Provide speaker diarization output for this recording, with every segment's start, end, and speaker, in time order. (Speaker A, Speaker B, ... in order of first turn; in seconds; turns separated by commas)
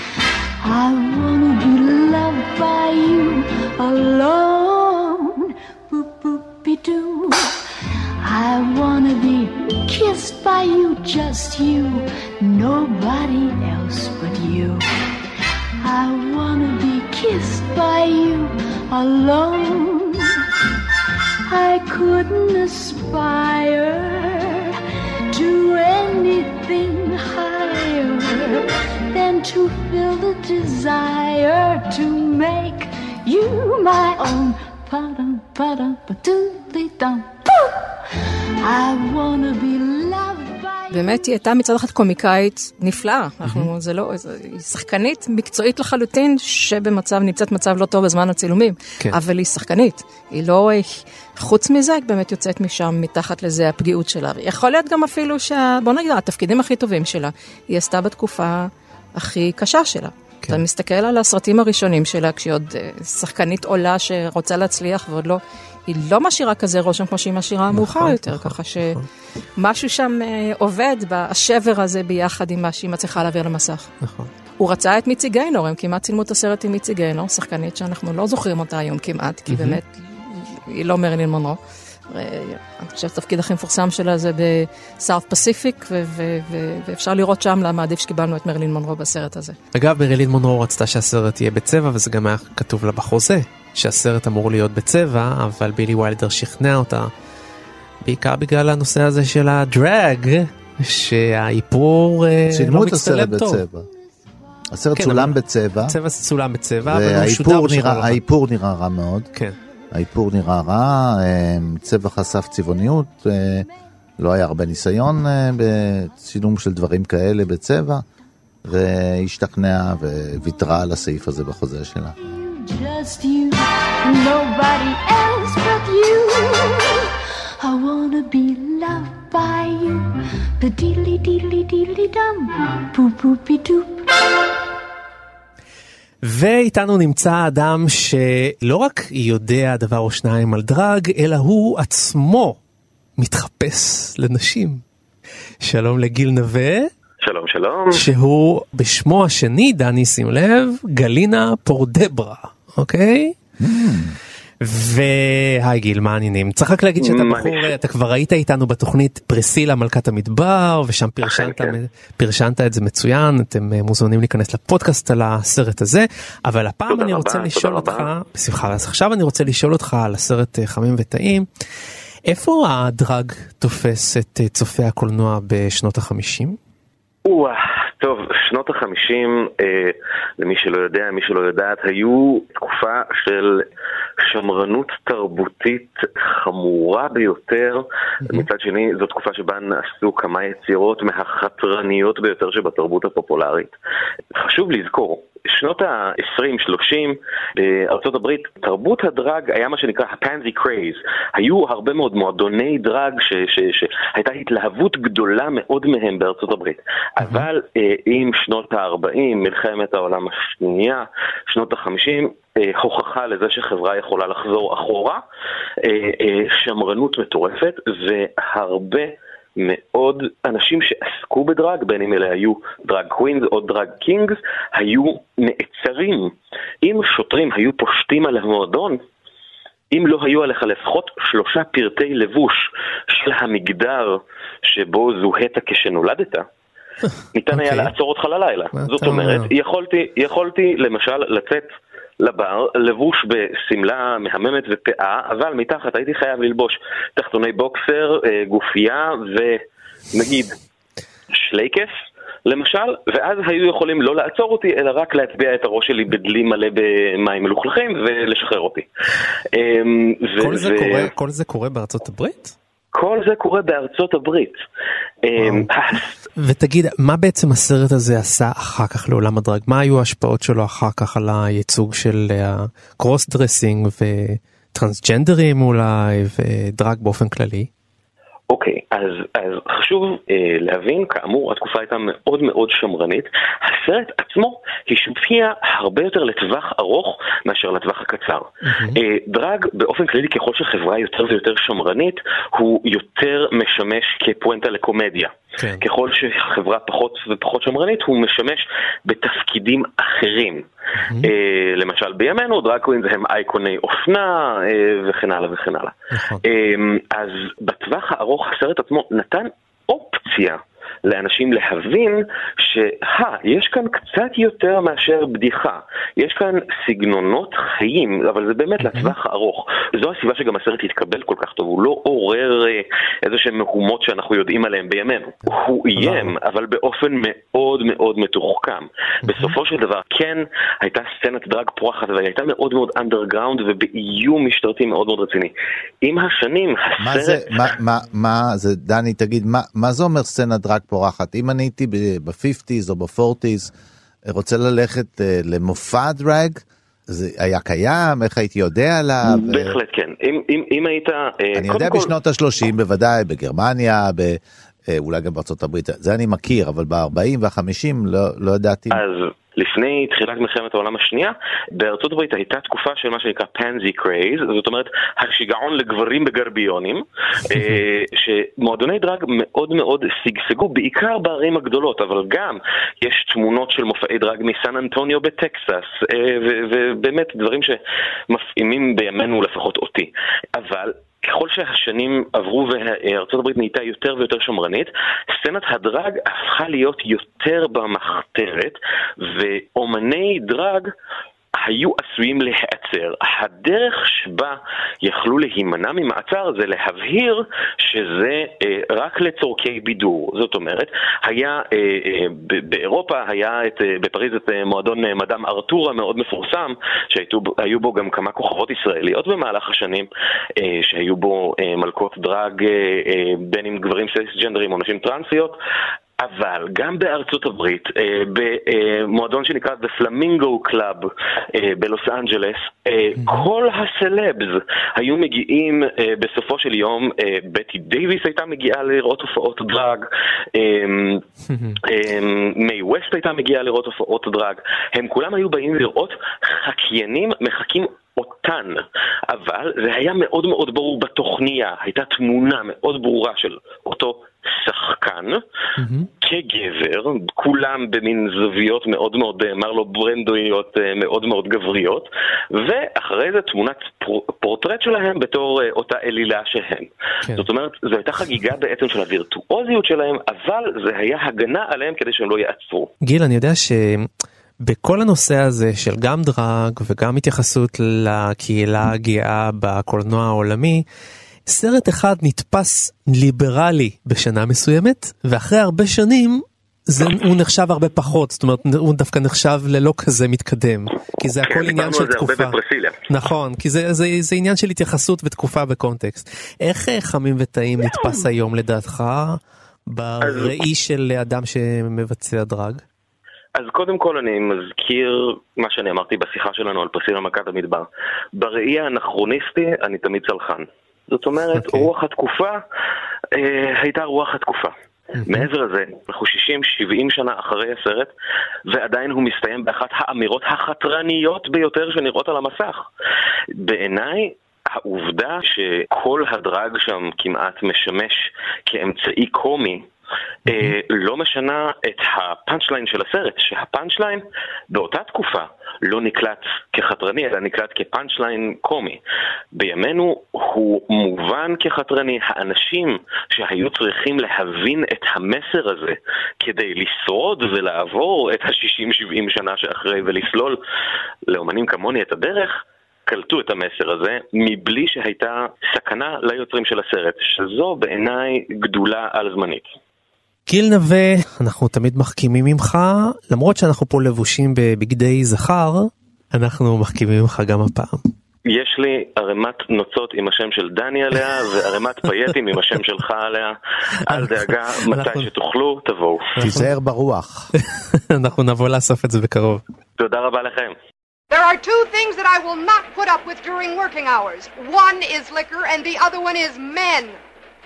Speaker A: 0.6-7.6, Speaker A: 8.2-14.8, Speaker A: 15.8-20.4, Speaker A: 21.4-24.8, Speaker A: 25.3-41.2, Speaker B: 40.9-69.0, Speaker C: 43.4-43.7, Speaker C: 67.7-69.0, Speaker B: 69.6-73.9, Speaker C: 74.0-74.3, Speaker B: 74.6-89.6, Speaker C: 79.5-79.8, Speaker C: 89.7-97.1, Speaker C: 98.0-103.6, Speaker D: 102.5-103.9, Speaker D: 104.7-106.0, Speaker C: 105.0-105.3, Speaker C: 105.9-108.2, Speaker D: 106.8-109.3, Speaker D: 109.9-113.7, Speaker D: 114.2-118.0, Speaker D: 118.6-122.2, Speaker A: 122.2-134.1, Speaker C: 136.2-142.6, Speaker C: 143.2-144.8, Speaker C: 145.6-146.9, Speaker E: 147.2-148.0, Speaker C: 147.9-153.3, Speaker D: 153.6-154.2, Speaker C: 154.6-171.5, Speaker E: 157.0-157.7, Speaker E: 161.2-161.7, Speaker E: 166.9-168.1, Speaker C: 172.3-176.6, Speaker E: 177.2-183.6, Speaker E: 184.2-193.7, Speaker C: 188.2-188.5, Speaker E: 194.3-215.2, Speaker C: 207.2-207.5, Speaker E: 215.8-229.0, Speaker E: 229.9-236.4, Speaker E: 237.3-241.7, Speaker C: 237.5-237.9, Speaker C: 238.8-239.5, Speaker E: 242.2-249.6, Speaker E: 250.1-250.5, Speaker E: 251.3-251.9, Speaker E: 252.4-258.9, Speaker E: 259.5-261.1, Speaker C: 260.4-262.5, Speaker E: 262.9-264.6, Speaker E: 265.2-266.1, Speaker C: 265.4-265.7, Speaker C: 266.4-277.7, Speaker E: 278.5-300.6, Speaker C: 288.6-289.0, Speaker C: 295.6-295.8, Speaker C: 301.0-301.3, Speaker E: 301.2-337.7, Speaker C: 306.1-306.4, Speaker C: 318.8-319.1, Speaker C: 326.0-326.3, Speaker C: 329.2-329.6, Speaker D: 337.0-343.7, Speaker D: 344.2-349.8, Speaker E: 349.2-352.1, Speaker D: 351.6-359.0, Speaker E: 358.9-377.8, Speaker E: 378.3-390.9, Speaker E: 391.6-410.1, Speaker E: 410.6-415.6, Speaker E: 416.2-431.2, Speaker C: 423.2-423.4, Speaker C: 431.5-431.8, Speaker E: 431.8-445.4, Speaker C: 445.8-446.1, Speaker E: 446.2-462.9, Speaker C: 463.0-464.1, Speaker C: 464.6-470.8, Speaker C: 471.5-482.6, Speaker E: 481.4-483.0, Speaker C: 483.1-492.8, Speaker E: 490.2-490.5, Speaker E: 493.6-502.6, Speaker C: 501.5-501.9, Speaker E: 503.4-504.7, Speaker C: 505.2-505.5, Speaker E: 505.2-508.1, Speaker E: 508.7-512.9, Speaker E: 513.6-519.8, Speaker C: 520.5-520.7, Speaker E: 520.5-529.0, Speaker E: 529.5-540.6, Speaker E: 541.3-549.6, Speaker C: 550.5-558.0, Speaker E: 558.5-566.3, Speaker C: 564.1-565.3, Speaker C: 566.4-566.7, Speaker D: 566.4-567.5, Speaker C: 567.6-569.6, Speaker E: 570.0-570.7, Speaker F: 571.3-577.2